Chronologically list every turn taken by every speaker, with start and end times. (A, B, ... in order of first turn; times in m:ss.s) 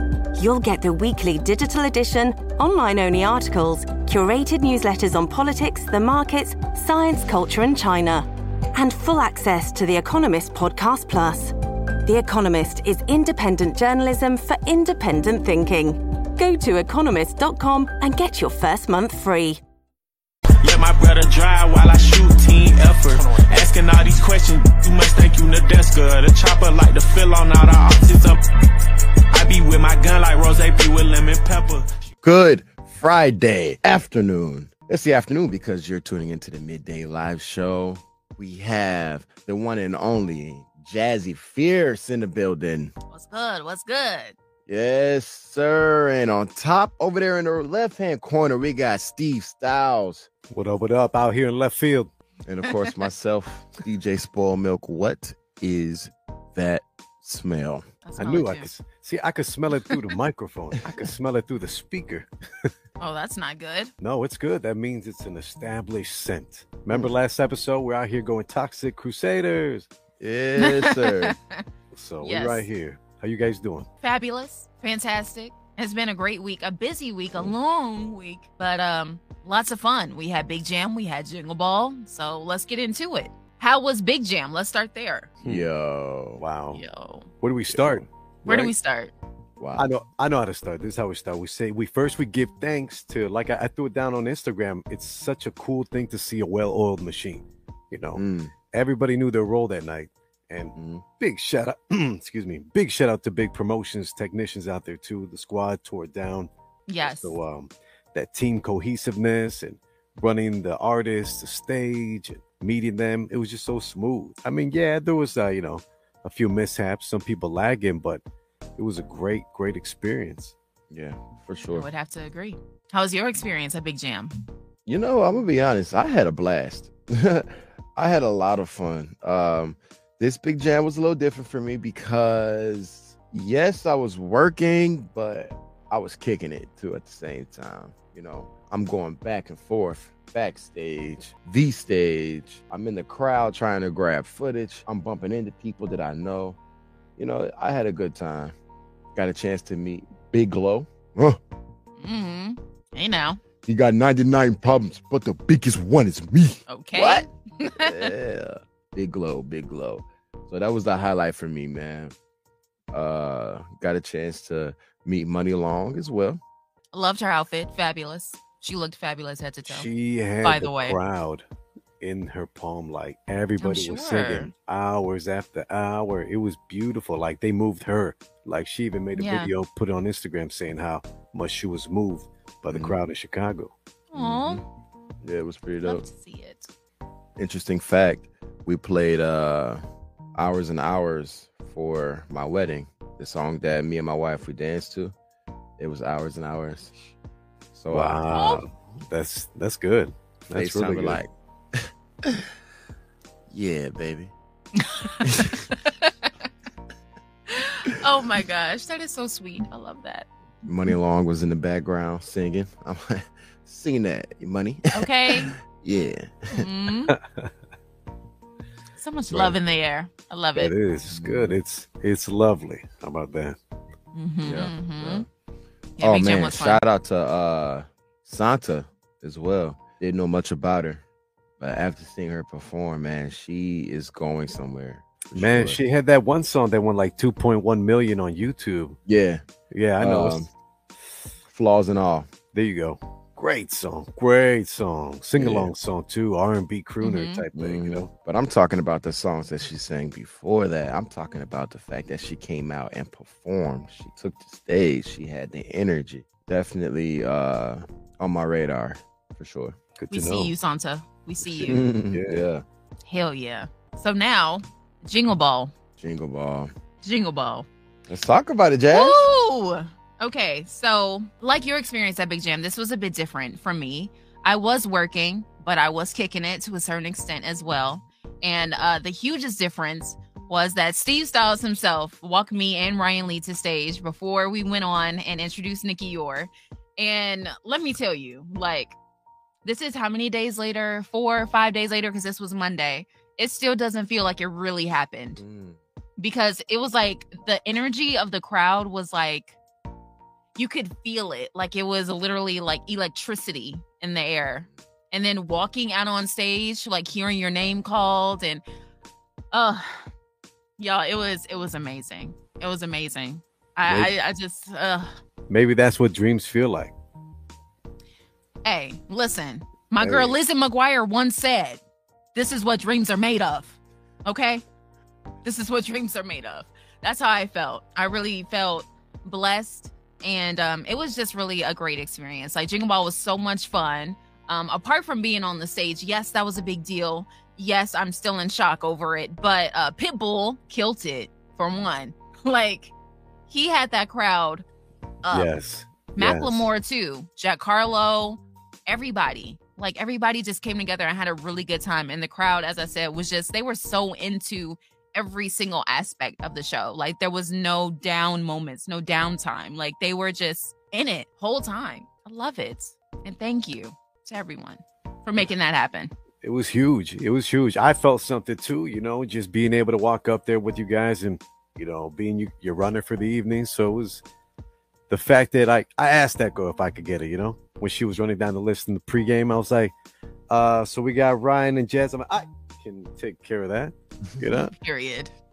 0:00.3-0:11.5 A
0:12.0-0:19.6 A
0:20.6-0:28.4 B
0:29.3-0:31.8 B
0:32.2-0:42.9 C
0:43.1-0:44.3 D
0:44.7-0:50.3 C
0:50.5-0:52.1 E
0:52.5-0:57.8 C
0:52.7-0:52.9 D
0:58.0-0:58.7 D
0:58.2-1:02.7 E
1:03.0-1:03.9 D
1:04.0-1:09.9 E
1:10.2-1:11.4 C
1:10.6-1:11.6 D
1:11.9-1:13.9 E
1:12.2-1:12.6 D
1:14.0-1:25.3 D
1:25.4-1:26.4 C
1:26.4-1:26.8 E
1:26.7-1:27.3 D
1:27.4-1:28.7 E
1:27.7-1:28.1 C
1:28.4-1:29.1 D
1:29.6-1:29.9 C
1:29.8-1:46.5 E
1:38.2-1:38.5 C
1:40.7-1:41.0 C
1:46.9-1:47.4 D
1:47.0-1:58.2 E
1:58.8-2:00.5 E
2:00.9-2:01.9 C
2:01.7-2:04.3 D
2:04.8-2:26.6 C
2:27.2-2:28.5 C
2:29.2-2:31.4 C
2:32.0-2:33.4 D
2:33.6-2:42.1 C
2:36.7-2:38.1 D
2:42.9-2:46.4 C
2:46.9-2:49.9 D
2:49.6-2:51.4 E
2:50.4-2:51.0 D
2:52.0-3:03.7 E
2:53.6-2:54.5 D
2:59.1-2:59.5 D
3:02.7-3:03.0 C
3:04.1-3:04.6 D
3:04.1-3:04.6 C
3:05.2-3:06.0 C
3:05.8-3:06.7 D
3:07.4-3:09.8 C
3:10.3-3:15.1 C
3:15.8-3:16.9 C
3:17.7-3:18.2 C
3:17.9-3:21.2 E
3:18.3-3:18.6 D
3:20.5-3:22.5 C
3:23.5-3:24.3 C
3:24.8-3:26.3 D
3:25.2-3:25.6 C
3:27.5-3:30.3 D
3:30.6-3:36.6 C
3:34.9-3:35.5 D
3:36.5-3:37.1 D
3:37.1-3:37.5 E
3:39.0-3:40.7 D
3:39.3-3:39.6 E
3:40.6-3:43.6 E
3:41.1-3:41.6 C
3:44.1-3:45.2 D
3:44.4-3:45.3 C
3:46.0-3:46.8 D
3:46.0-3:51.0 C
3:51.6-3:55.8 C
3:55.4-3:59.0 E
3:59.0-3:59.4 C
3:59.7-4:00.5 E
4:00.0-4:00.5 C
4:01.4-4:02.3 C
4:02.5-4:08.1 E
4:05.4-4:05.7 C
4:07.0-4:07.4 D
4:07.5-4:19.8 C
4:20.0-4:20.5 E
4:20.1-4:21.8 D
4:21.5-4:22.6 C
4:21.6-4:22.5 E
4:23.0-4:25.7 D
4:26.0-4:26.7 C
4:27.0-4:27.7 D
4:28.1-4:29.2 C
4:28.9-4:49.0 D
4:49.6-4:55.4 D
4:55.4-4:55.8 C
4:56.2-4:59.6 D
5:00.6-5:08.6 D
5:09.5-5:10.1 D
5:10.8-5:15.1 D
5:13.9-5:14.1 E
5:15.5-5:16.9 E
5:18.6-5:21.8 D
5:20.0-5:20.4 E
5:22.3-5:24.6 D
5:25.4-5:42.9 D
5:43.5-5:44.6 D
5:45.2-5:45.5 D
5:45.3-5:46.7 E
5:46.2-6:06.1 D
6:06.4-6:14.2 E
6:15.1-6:19.9 E
6:20.5-6:24.7 E
6:24.5-6:25.3 D